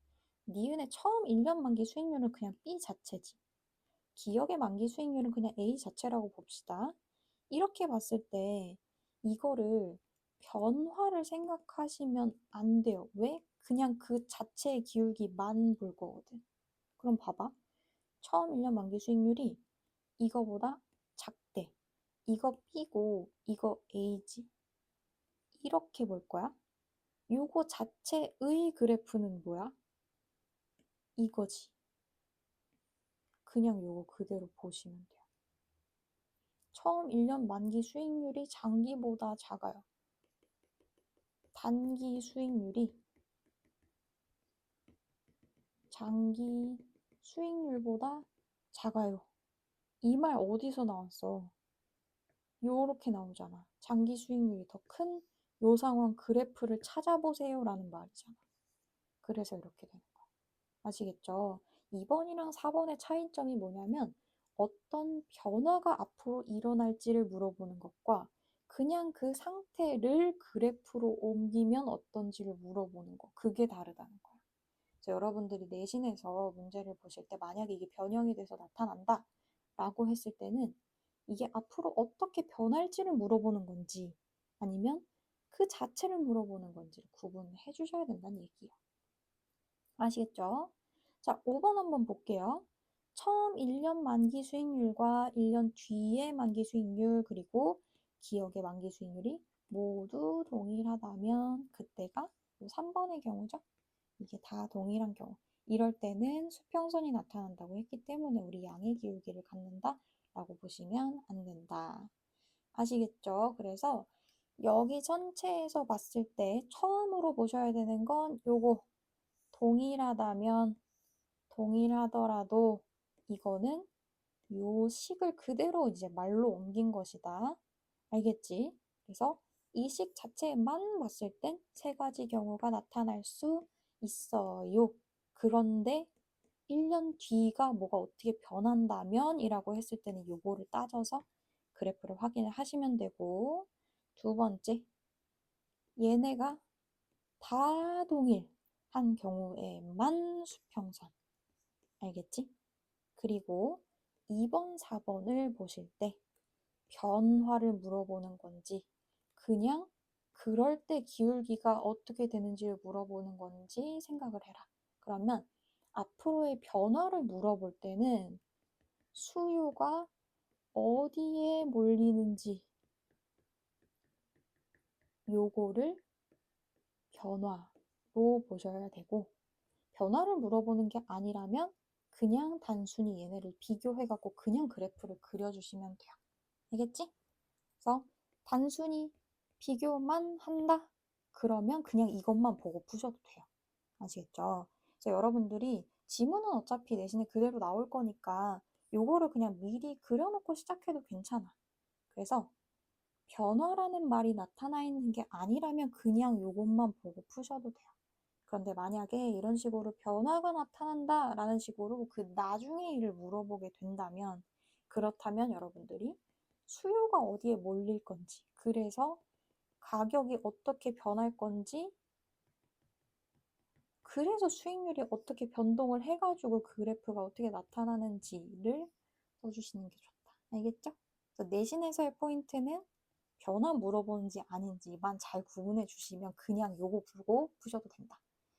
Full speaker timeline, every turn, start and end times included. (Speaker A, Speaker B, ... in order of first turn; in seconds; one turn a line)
Speaker A: 0.5-3.4
Speaker A: 4.1-7.0
Speaker A: 7.5-16.4
Speaker A: 17.0-17.5
Speaker A: 18.2-19.6
Speaker A: 20.2-21.7
Speaker A: 22.2-24.5
Speaker A: 25.5-26.6
Speaker A: 27.3-29.7
Speaker A: 31.2-31.7
Speaker A: 33.5-35.2
Speaker A: 36.7-39.8
Speaker A: 41.5-43.0
Speaker A: 45.9-49.3
Speaker A: 50.0-51.5
Speaker A: 52.6-58.4
Speaker A: 59.2-60.2
Speaker A: 60.8-74.4
Speaker A: 75.0-88.7
Speaker A: 90.0-103.6
Speaker A: 104.2-112.1
Speaker A: 112.7-118.8
Speaker A: 119.5-120.8
Speaker A: 121.5-123.9
Speaker A: 124.5-127.6
Speaker A: 128.1-136.1
Speaker A: 136.7-144.9
Speaker A: 146.0-146.6
Speaker A: 147.4-151.1
Speaker A: 152.0-152.5
Speaker A: 153.2-156.2
Speaker A: 156.9-168.4
Speaker A: 169.1-170.1
Speaker A: 170.7-172.7
Speaker A: 175.3-176.0
Speaker A: 177.1-179.3
Speaker A: 179.9-186.2
Speaker A: 186.7-187.1
Speaker A: 187.8-193.4
Speaker A: 194.0-201.5
Speaker A: 202.1-202.5
Speaker A: 203.3-207.9
Speaker A: 208.5-219.2
Speaker A: 219.8-221.9
Speaker A: 224.0-232.8
Speaker A: 233.4-238.2